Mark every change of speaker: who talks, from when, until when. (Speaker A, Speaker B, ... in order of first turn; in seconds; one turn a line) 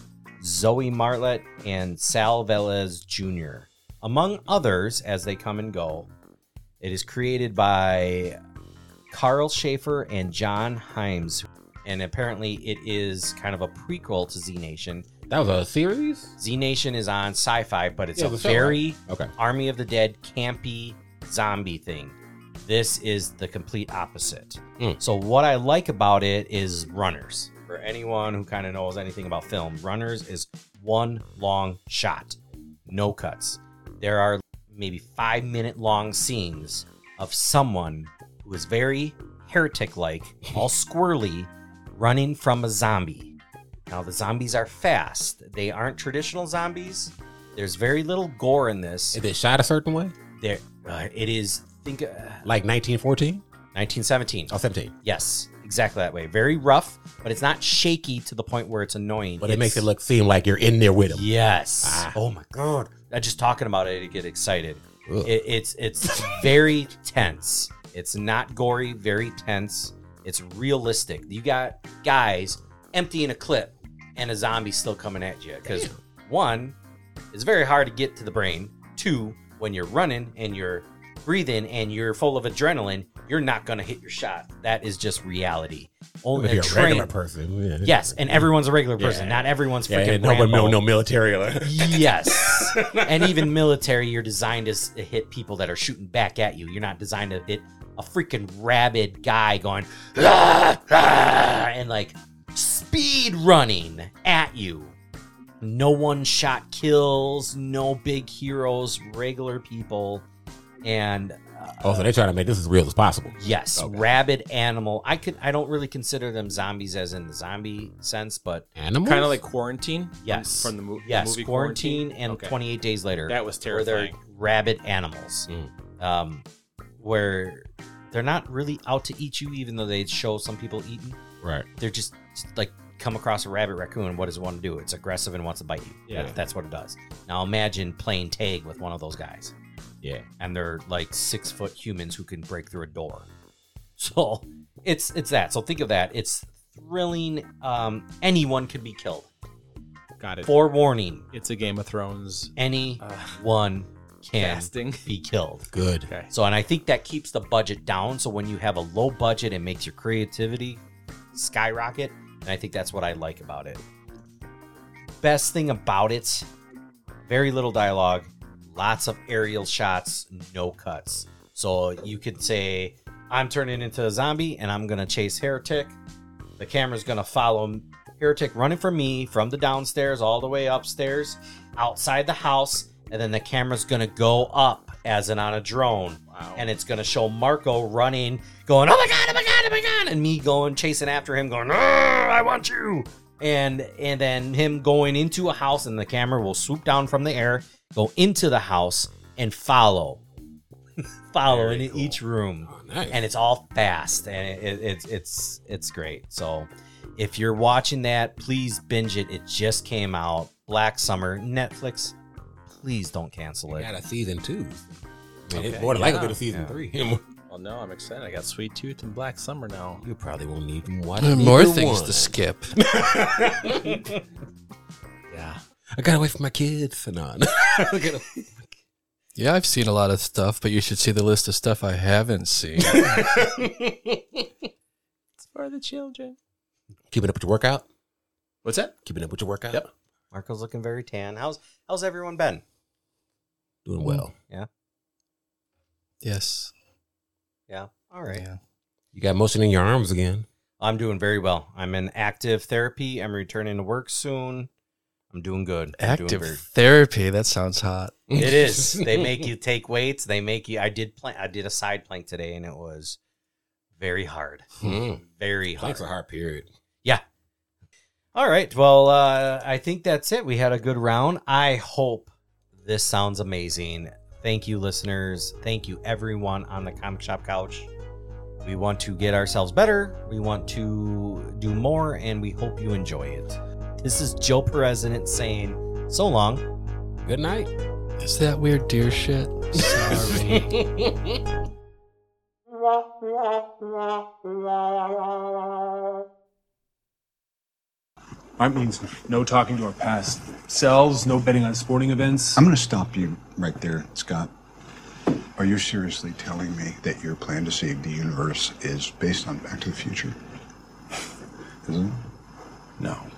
Speaker A: 0.4-6.1
Speaker A: 6.8-8.4
Speaker A: 9.1-15.1
Speaker B: 15.3-16.3
Speaker A: 16.4-43.3
Speaker B: 18.1-19.3
Speaker A: 43.9-49.2
Speaker B: 49.1-50.1
Speaker A: 50.4-52.4
Speaker B: 52.4-53.4
Speaker A: 53.7-59.9
Speaker B: 54.5-54.9
Speaker B: 59.4-61.3
Speaker A: 61.1-76.8
Speaker B: 61.8-62.1
Speaker B: 65.0-65.3
Speaker B: 66.0-66.5
Speaker B: 75.6-76.0
Speaker A: 77.3-87.1
Speaker B: 86.3-93.5
Speaker A: 87.8-90.8
Speaker A: 91.6-104.9
Speaker A: 105.6-110.2
Speaker A: 110.8-112.1
Speaker B: 111.8-114.1
Speaker A: 113.4-118.7
Speaker B: 118.8-119.4
Speaker C: 119.0-122.5
Speaker A: 120.2-125.5
Speaker C: 123.3-124.2
Speaker A: 126.0-126.4
Speaker A: 127.0-131.2
Speaker B: 131.4-131.7
Speaker A: 131.8-139.5
Speaker B: 136.1-136.4
Speaker A: 140.4-143.3
Speaker A: 144.0-149.3
Speaker C: 150.2-150.5
Speaker A: 150.4-151.2
Speaker C: 151.3-153.4
Speaker A: 152.6-155.7
Speaker C: 154.4-155.1
Speaker B: 155.7-156.1
Speaker A: 156.3-160.8
Speaker A: 161.3-163.8
Speaker A: 165.2-166.5
Speaker A: 167.2-175.9
Speaker A: 176.6-200.2
Speaker C: 186.3-186.7
Speaker A: 201.3-212.1
Speaker B: 201.5-203.2
Speaker A: 212.7-213.9
Speaker B: 213.7-214.9
Speaker B: 215.5-217.2
Speaker C: 215.5-216.4
Speaker A: 216.5-216.8
Speaker C: 217.5-220.0
Speaker B: 220.0-224.1
Speaker D: 221.2-222.8
Speaker C: 225.3-225.6
Speaker B: 225.9-228.7
Speaker D: 229.3-233.1
Speaker B: 232.8-234.4
Speaker C: 235.4-236.4
Speaker B: 237.1-237.8
Speaker C: 238.6-238.9
Speaker B: 239.0-239.8
Speaker A: 240.3-242.6
Speaker B: 243.8-244.3
Speaker D: 246.2-246.7
Speaker A: 247.7-248.4
Speaker D: 248.3-248.6
Speaker B: 249.1-250.5
Speaker A: 250.8-254.7
Speaker A: 255.3-256.6
Speaker D: 256.0-258.1
Speaker B: 258.3-259.5
Speaker A: 258.3-263.2
Speaker A: 264.0-266.0
Speaker B: 264.8-265.2
Speaker B: 265.8-266.7
Speaker A: 268.3-277.9
Speaker A: 278.6-286.6
Speaker B: 287.2-287.7
Speaker D: 288.2-290.7
Speaker B: 289.8-291.5
Speaker E: 298.6-302.6
Speaker F: 302.5-304.5
Speaker F: 305.6-310.4
Speaker F: 311.8-312.2